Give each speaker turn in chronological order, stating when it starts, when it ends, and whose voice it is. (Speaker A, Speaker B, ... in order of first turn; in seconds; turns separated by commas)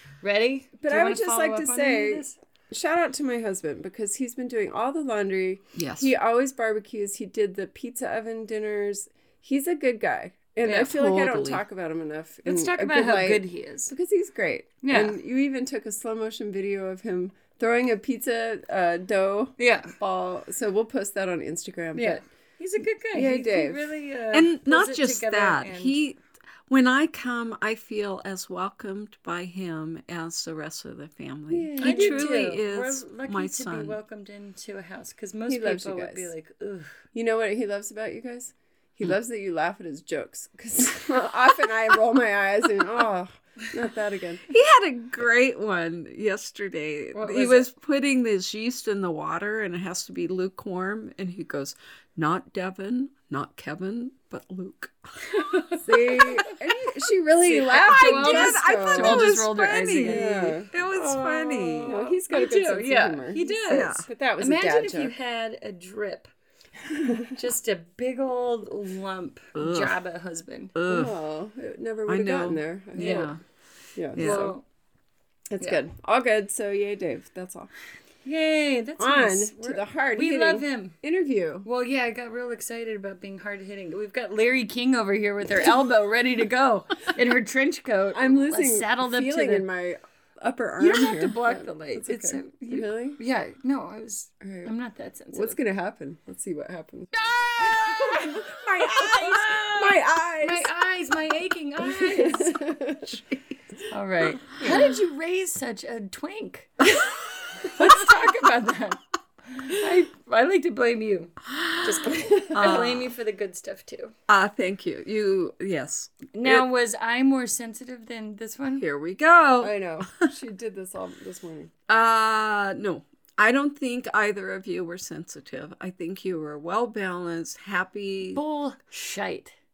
Speaker A: 0.2-2.4, Speaker B: 0.8-22.2, Speaker C: 5.8-6.1, Speaker C: 10.7-11.7, Speaker A: 12.4-13.9, Speaker A: 14.8-15.2, Speaker A: 19.6-19.9, Speaker A: 21.9-26.0, Speaker B: 23.1-23.9, Speaker C: 24.3-34.0, Speaker B: 31.5-32.3, Speaker A: 31.8-36.9, Speaker B: 35.5-36.3, Speaker B: 37.1-44.5, Speaker C: 44.5-55.0, Speaker A: 47.1-47.7, Speaker A: 55.6-56.5, Speaker B: 55.8-59.4, Speaker A: 57.5-66.3, Speaker C: 57.6-62.0, Speaker B: 60.1-60.7, Speaker B: 61.9-65.1, Speaker C: 63.7-64.1, Speaker B: 66.9-67.3, Speaker A: 67.3-70.7, Speaker C: 69.5-70.0, Speaker C: 70.8-71.2, Speaker B: 70.9-73.3, Speaker C: 72.1-73.4, Speaker A: 73.0-73.3, Speaker B: 74.0-74.5, Speaker C: 74.2-74.5, Speaker A: 74.2-74.6, Speaker B: 75.5-77.7, Speaker A: 78.2-81.0, Speaker B: 79.0-81.7, Speaker A: 81.6-89.7, Speaker B: 88.1-93.2, Speaker A: 90.8-95.6, Speaker B: 94.4-94.7, Speaker B: 95.3-100.7, Speaker A: 97.3-102.6, Speaker B: 101.8-103.2, Speaker C: 103.1-103.4, Speaker A: 103.9-106.7, Speaker B: 104.6-104.9, Speaker A: 107.7-109.0, Speaker A: 109.5-114.2, Speaker C: 112.5-113.1, Speaker C: 114.3-116.7, Speaker A: 116.3-118.8, Speaker C: 118.8-120.3, Speaker B: 119.6-121.7, Speaker C: 121.9-128.4, Speaker A: 128.3-129.5